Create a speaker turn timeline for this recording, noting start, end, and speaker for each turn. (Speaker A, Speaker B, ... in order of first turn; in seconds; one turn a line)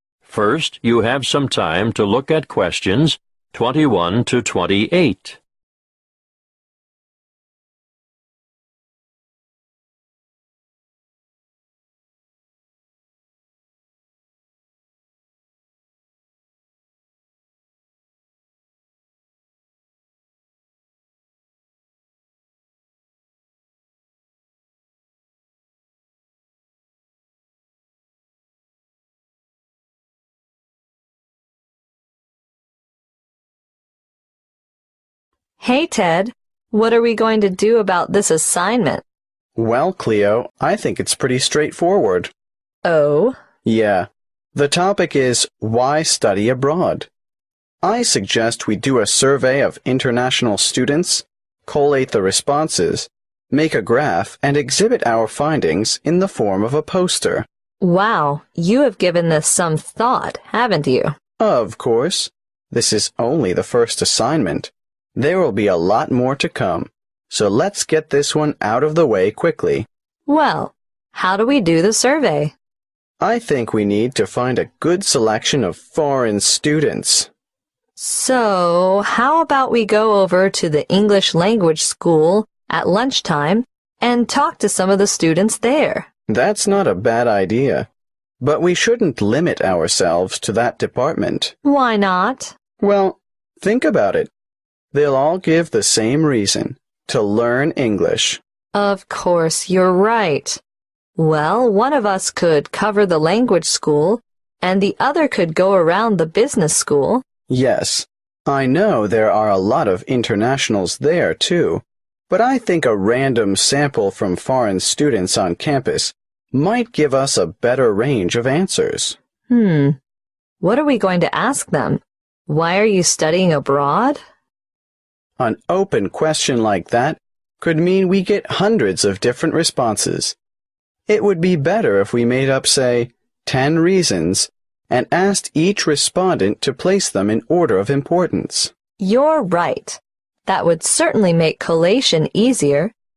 Speaker A: 0.3-5.4
Speaker B: 35.6-39.0
Speaker C: 39.6-42.3
Speaker B: 42.9-43.4
Speaker C: 43.6-47.1
Speaker C: 47.8-57.5
Speaker B: 57.8-61.1
Speaker C: 61.4-69.9
Speaker B: 70.3-72.5
Speaker C: 73.2-77.3
Speaker B: 78.0-86.1
Speaker C: 86.3-87.9
Speaker C: 88.4-91.5
Speaker B: 91.6-92.5
Speaker C: 92.8-94.3
Speaker C: 94.9-98.4
Speaker B: 98.8-100.6
Speaker B: 101.2-107.2
Speaker C: 107.5-119.2
Speaker B: 119.5-120.0
Speaker B: 120.6-124.2
Speaker C: 125.4-130.4
Speaker C: 131.1-138.7
Speaker B: 139.0-142.9